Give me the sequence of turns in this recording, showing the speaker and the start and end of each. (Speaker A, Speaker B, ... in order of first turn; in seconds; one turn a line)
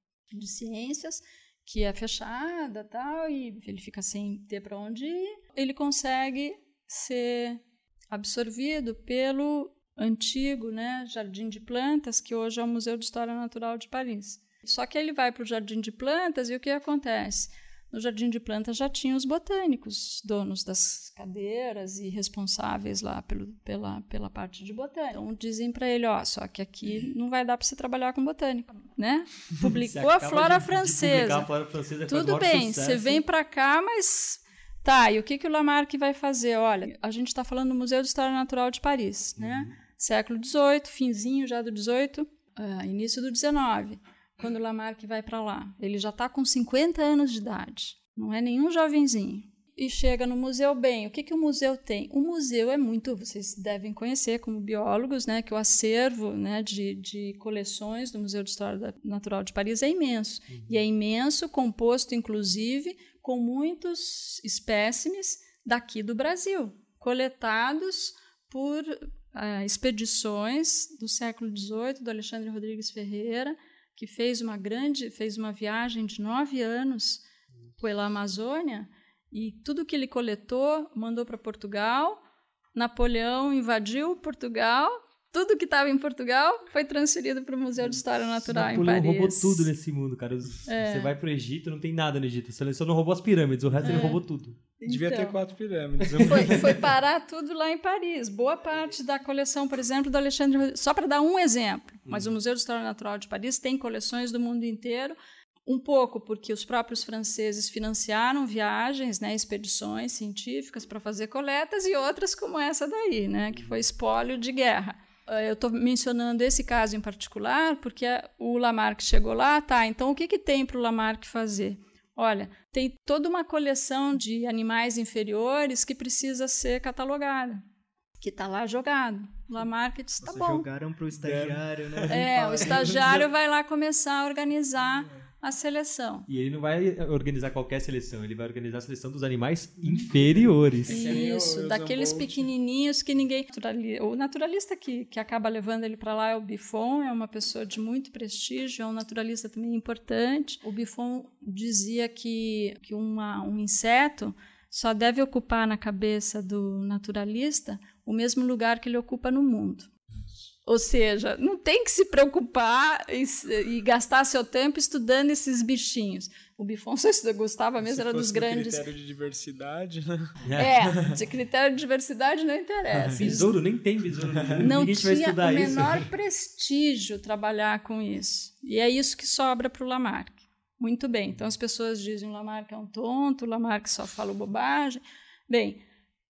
Speaker A: 0.3-31.5
Speaker B: 29.6-33.2
Speaker A: 32.1-77.2
Speaker B: 39.4-39.7
Speaker B: 60.5-60.8
Speaker A: 77.8-82.2
Speaker A: 82.8-89.7
Speaker B: 88.5-94.6
Speaker A: 90.7-91.1
Speaker A: 93.8-94.2
Speaker A: 94.8-95.4
Speaker C: 94.9-96.8
Speaker B: 96.0-96.5
Speaker A: 96.2-127.6
Speaker B: 102.1-102.3
Speaker A: 128.2-130.7
Speaker D: 130.2-133.2
Speaker C: 131.1-133.2
Speaker A: 132.1-136.3
Speaker B: 136.3-141.2
Speaker C: 140.8-142.5
Speaker A: 140.9-159.9
Speaker A: 160.7-168.9
Speaker C: 167.8-170.4
Speaker B: 170.4-170.8
Speaker A: 170.6-173.6
Speaker B: 173.2-176.1
Speaker C: 174.2-174.6
Speaker A: 174.6-185.8